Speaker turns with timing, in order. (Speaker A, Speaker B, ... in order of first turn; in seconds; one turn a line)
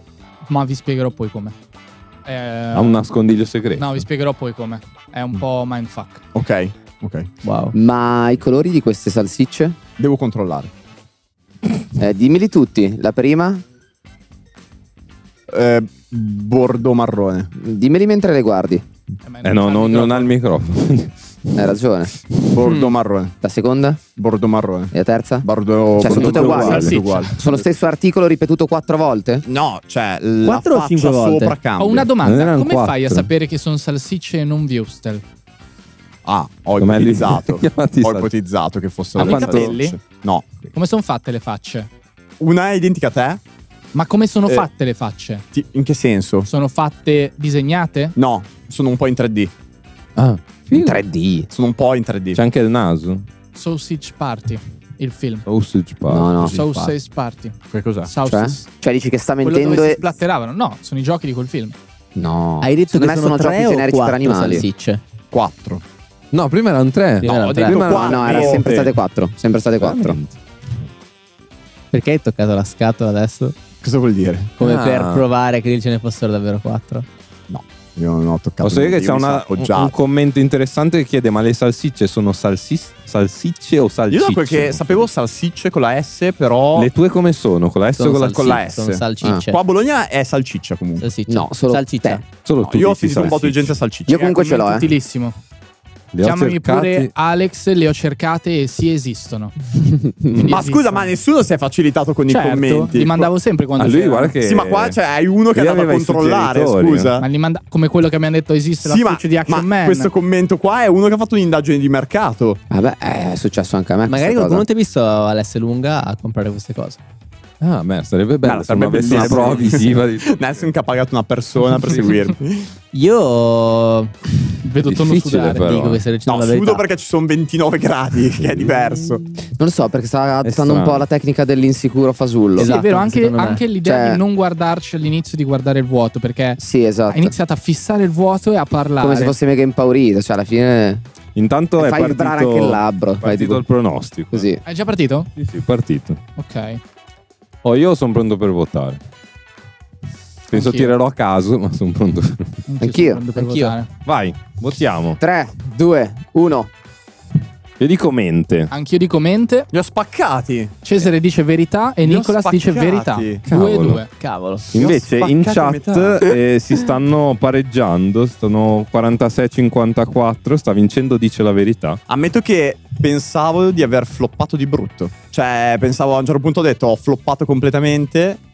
Speaker A: 0.5-1.5
Speaker A: 2.2-3.0
Speaker B: 2.7-4.0
Speaker A: 3.8-6.2
Speaker C: 6.3-7.3
Speaker D: 7.4-7.7
Speaker E: 7.7-9.8
Speaker C: 10.0-10.7
Speaker E: 11.9-13.6
Speaker C: 15.5-17.5
Speaker E: 17.6-18.8
Speaker A: 19.2-20.4
Speaker B: 19.4-21.6
Speaker E: 21.6-22.1
Speaker C: 22.4-23.3
Speaker E: 23.4-24.0
Speaker C: 24.1-24.9
Speaker E: 24.9-25.5
Speaker C: 25.4-27.4
Speaker E: 26.0-29.4
Speaker B: 26.0-27.0
Speaker A: 26.3-27.3
Speaker C: 29.4-32.1
Speaker D: 30.4-31.5
Speaker A: 31.8-35.2
Speaker B: 32.2-33.3
Speaker C: 36.2-40.7
Speaker B: 36.8-38.3
Speaker A: 39.2-40.0
Speaker B: 39.2-39.7
Speaker A: 40.7-41.9
Speaker C: 42.4-43.4
Speaker A: 43.9-45.4
Speaker C: 45.5-46.5
Speaker A: 46.5-48.1
Speaker C: 48.1-49.5
Speaker B: 50.1-51.0
Speaker E: 50.7-51.5
Speaker C: 51.5-52.4
Speaker B: 52.3-53.2
Speaker A: 53.5-55.4
Speaker B: 55.5-56.6
Speaker E: 56.1-56.5
Speaker A: 56.4-58.7
Speaker C: 57.7-58.1
Speaker E: 58.2-60.0
Speaker A: 59.4-61.7
Speaker E: 62.1-64.7
Speaker D: 62.6-65.0
Speaker C: 65.3-65.8
Speaker B: 66.3-68.9
Speaker D: 67.2-68.4
Speaker C: 67.2-68.6
Speaker E: 67.9-70.2
Speaker B: 69.8-70.4
Speaker D: 71.9-73.5
Speaker C: 73.8-74.5
Speaker D: 74.6-77.0
Speaker B: 74.6-75.2
Speaker C: 77.5-79.9
Speaker B: 78.6-85.1
Speaker C: 84.1-86.9
Speaker B: 86.7-88.6
Speaker D: 88.0-89.6
Speaker C: 88.3-91.0
Speaker D: 91.0-92.3
Speaker E: 91.3-92.2
Speaker B: 92.3-93.8
Speaker C: 92.6-94.2
Speaker E: 94.1-94.9
Speaker A: 94.1-95.3
Speaker B: 96.1-97.1
Speaker A: 96.2-99.5
Speaker E: 100.0-100.5
Speaker C: 100.4-103.3
Speaker A: 100.4-101.1
Speaker A: 102.3-104.3
Speaker B: 103.8-105.0
Speaker C: 104.4-107.2
Speaker B: 105.5-107.2
Speaker A: 107.2-110.1
Speaker C: 108.8-112.6
Speaker E: 112.7-114.6
Speaker D: 114.1-117.0
Speaker B: 117.6-120.6
Speaker C: 118.4-122.7
Speaker D: 119.0-119.9
Speaker D: 122.9-124.2
Speaker A: 124.6-125.7
Speaker B: 124.9-126.0
Speaker D: 125.0-126.8
Speaker C: 126.2-129.2
Speaker B: 128.4-128.7
Speaker E: 129.6-132.7
Speaker B: 130.4-131.0
Speaker D: 132.6-133.6
Speaker A: 132.6-136.6
Speaker E: 133.8-134.2
Speaker E: 136.6-137.3
Speaker A: 137.1-139.3
Speaker E: 139.0-141.0
Speaker B: 141.3-144.5
Speaker E: 141.8-143.6
Speaker E: 144.3-144.6
Speaker A: 144.6-145.3
Speaker B: 145.3-146.2
Speaker A: 146.4-146.8
Speaker B: 147.6-149.0
Speaker B: 150.5-152.6
Speaker A: 150.5-150.9
Speaker A: 152.7-153.9
Speaker E: 152.8-153.2
Speaker D: 153.3-153.7
Speaker B: 154.0-155.2
Speaker E: 155.2-156.7
Speaker B: 157.8-158.7
Speaker A: 158.7-159.7
Speaker C: 159.7-161.1
Speaker A: 160.8-164.1
Speaker C: 162.0-163.4
Speaker B: 163.5-164.0
Speaker D: 164.1-165.0
Speaker B: 164.7-172.0
Speaker C: 164.8-166.3
Speaker C: 172.1-178.4